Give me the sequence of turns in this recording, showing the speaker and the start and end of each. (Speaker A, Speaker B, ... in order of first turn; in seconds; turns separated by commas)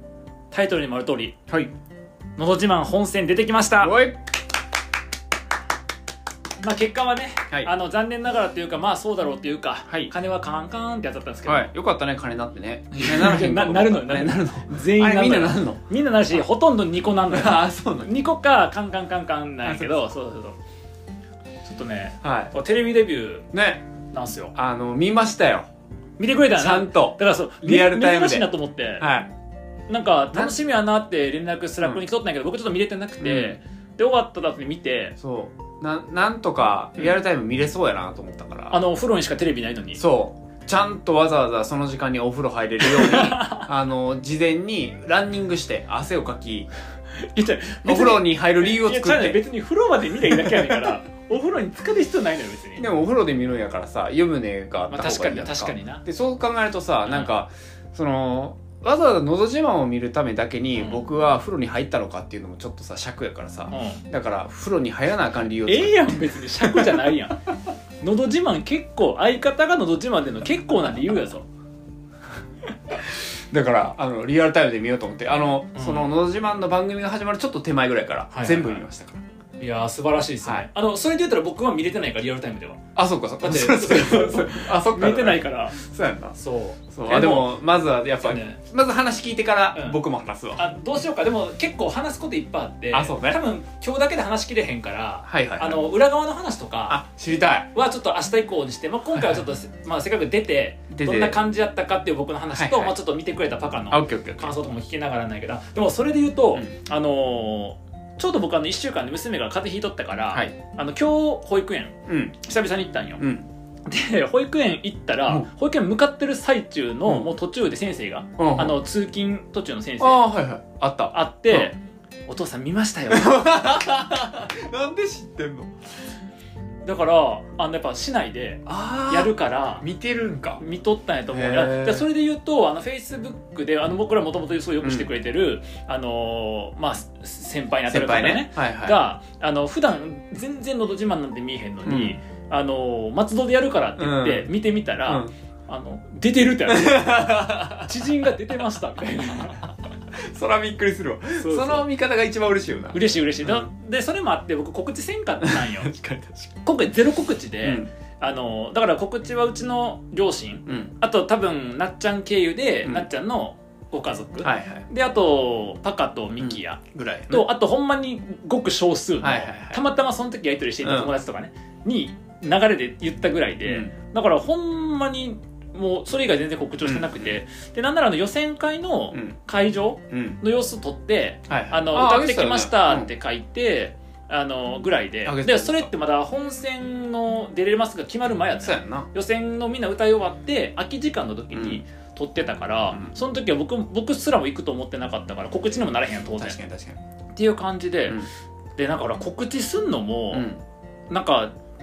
Speaker A: 0.5-1.4, Speaker A: 2.4-4.0, Speaker B: 3.8-4.3, Speaker A: 6.6-11.7, Speaker B: 9.9-10.1, Speaker B: 11.4-15.8, Speaker A: 12.9-20.6, Speaker B: 17.3-18.1, Speaker B: 19.6-20.0, Speaker A: 21.6-23.4, Speaker B: 22.2-22.5, Speaker B: 23.5-23.8, Speaker A: 24.1-24.5, Speaker B: 24.5-25.7, Speaker A: 26.2-29.1, Speaker B: 26.5-29.3, Speaker A: 29.9-35.1, Speaker B: 30.3-30.6, Speaker B: 33.2-33.6, Speaker B: 35.2-38.8, Speaker A: 38.7-40.0, Speaker B: 40.0-46.7, Speaker A: 42.8-43.7, Speaker A: 47.2-52.9, Speaker B: 47.8-49.4, Speaker B: 50.2-50.9, Speaker B: 52.8-67.0, Speaker A: 54.9-56.0, Speaker A: 63.7-64.0, Speaker A: 65.7-67.4, Speaker A: 68.0-71.5, Speaker B: 72.9-79.2, Speaker A: 75.7-76.1, Speaker A: 78.3-78.8, Speaker A: 79.6-82.8, Speaker B: 83.0-86.3, Speaker A: 83.4-85.8, Speaker A: 86.3-87.6, Speaker B: 86.9-90.6, Speaker A: 88.2-88.6, Speaker A: 90.6-97.0, Speaker B: 92.9-93.4, Speaker B: 95.2-95.9, Speaker B: 96.9-97.7, Speaker A: 97.7-113.2, Speaker B: 99.1-99.5, Speaker B: 100.9-101.4, Speaker B: 102.5-102.9, Speaker B: 103.9-104.5, Speaker B: 110.3-110.5, Speaker B: 112.1-112.4, Speaker B: 113.2-113.5, Speaker A: 113.8-120.2, Speaker B: 118.4-118.8, Speaker B: 120.0-121.7, Speaker A: 121.1-123.5, Speaker B: 123.1-125.7, Speaker A: 126.8-129.8, Speaker B: 128.7-130.6, Speaker A: 130.6-149.7, Speaker B: 131.3-132.1, Speaker B: 134.8-135.1, Speaker B: 137.9-139.0, Speaker B: 141.8-142.2, Speaker B: 144.0-144.5, Speaker B: 145.0-145.3, Speaker B: 146.7-148.1, Speaker B: 150.1-153.7, Speaker A: 151.4-151.9, Speaker A: 152.9-155.9, Speaker B: 155.4-156.5, Speaker A: 156.6-196.6, Speaker B: 157.6-157.9, Speaker B: 160.7-160.9, Speaker B: 164.4-164.9, Speaker B: 166.4-167.5, Speaker B: 169.2-169.8, Speaker B: 170.8-171.1, Speaker B: 173.7-173.9, Speaker B: 176.8-177.3, Speaker B: 179.1-179.4, Speaker B: 180.1-180.4, Speaker B: 181.5-183.1, Speaker B: 185.2-185.9, Speaker B: 188.6-189.1, Speaker B: 191.5-191.8, Speaker B: 192.9-193.2, Speaker B: 196.3-197.0, Speaker A: 197.3-198.2, Speaker A: 198.8-200.5, Speaker B: 200.3-200.6, Speaker A: 201.1-201.5